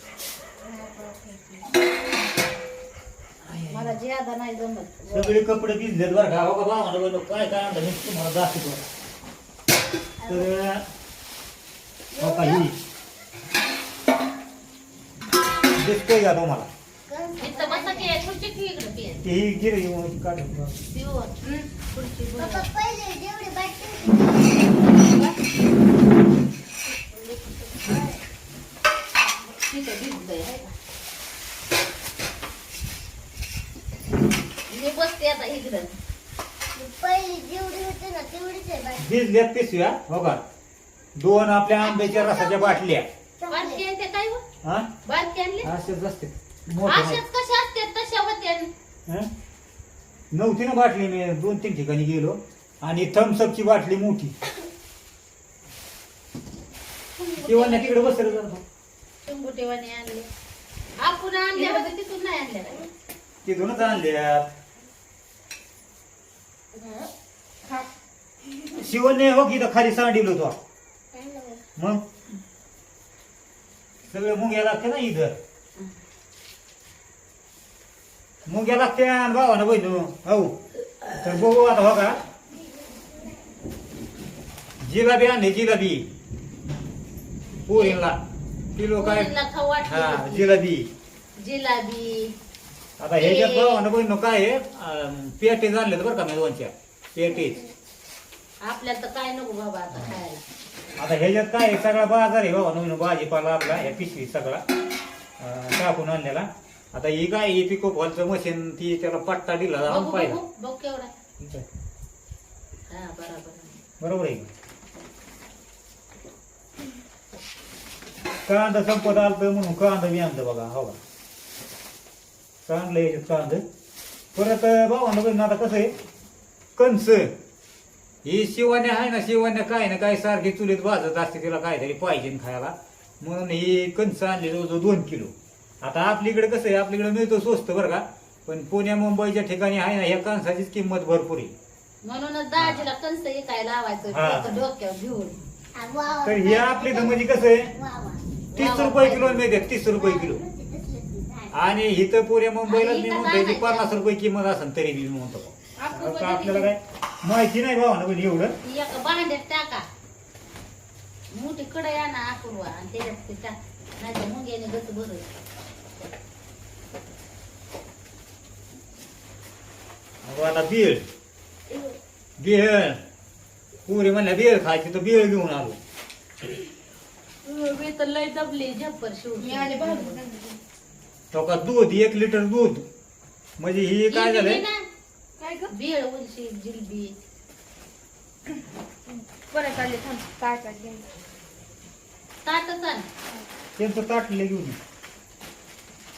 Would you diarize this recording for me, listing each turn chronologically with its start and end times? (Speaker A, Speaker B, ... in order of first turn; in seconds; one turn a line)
Speaker A: 0.8-1.3
Speaker B: 3.4-3.9
Speaker C: 3.7-5.4
Speaker B: 5.1-8.8
Speaker D: 10.2-10.5
Speaker B: 10.3-10.8
Speaker D: 12.1-12.7
Speaker B: 12.2-12.8
Speaker B: 15.7-16.7
Speaker D: 17.1-18.1
Speaker C: 17.4-19.2
Speaker B: 19.2-20.8
Speaker C: 20.9-22.7
Speaker D: 22.4-24.7
Speaker C: 24.8-25.4
Speaker D: 26.9-28.2
Speaker C: 29.4-30.7
Speaker C: 34.7-35.9
Speaker D: 36.8-39.0
Speaker B: 39.0-40.4
Speaker B: 41.2-43.1
Speaker D: 41.8-42.8
Speaker D: 43.4-43.8
Speaker C: 43.5-44.4
Speaker B: 44.6-44.9
Speaker C: 45.0-45.7
Speaker B: 45.6-47.2
Speaker C: 46.9-48.7
Speaker B: 50.3-54.4
Speaker C: 57.2-58.2
Speaker B: 57.4-58.6
Speaker C: 59.2-60.3
Speaker C: 61.0-62.9
Speaker A: 61.6-61.8
Speaker B: 63.4-64.5
Speaker D: 66.7-67.1
Speaker B: 68.8-70.6
Speaker D: 71.1-71.6
Speaker B: 71.8-72.0
Speaker B: 74.1-75.3
Speaker B: 78.5-80.6
Speaker B: 81.2-82.2
Speaker B: 84.8-86.1
Speaker B: 87.7-88.2
Speaker C: 87.7-88.0
Speaker B: 88.8-89.3
Speaker C: 89.0-90.6
Speaker B: 89.9-90.9
Speaker C: 91.4-92.3
Speaker B: 93.0-97.6
Speaker C: 93.2-93.8
Speaker D: 97.4-97.7
Speaker C: 98.6-100.4
Speaker B: 101.0-104.6
Speaker B: 105.4-110.4
Speaker C: 109.9-111.1
Speaker B: 111.4-111.7
Speaker C: 112.9-113.8
Speaker B: 114.0-114.5
Speaker B: 118.5-121.0
Speaker B: 122.7-123.6
Speaker B: 124.3-125.9
Speaker B: 126.8-127.3
Speaker B: 128.2-141.5
Speaker C: 142.0-145.4
Speaker B: 142.6-142.9
Speaker B: 144.1-144.6
Speaker D: 145.8-148.2
Speaker B: 146.2-147.7
Speaker C: 148.5-149.5
Speaker B: 148.6-150.4
Speaker D: 149.7-151.6
Speaker B: 151.5-158.6
Speaker C: 152.7-154.0
Speaker C: 155.8-156.7
Speaker C: 158.6-159.9
Speaker C: 161.3-165.3
Speaker B: 170.2-171.1
Speaker B: 172.4-173.0
Speaker B: 173.9-175.8
Speaker C: 177.4-180.2
Speaker A: 179.4-180.6
Speaker B: 181.3-182.9
Speaker B: 183.6-184.6
Speaker C: 184.1-184.8
Speaker A: 185.4-185.7
Speaker C: 185.7-187.1
Speaker A: 189.4-191.1
Speaker C: 192.5-193.1
Speaker B: 193.8-194.8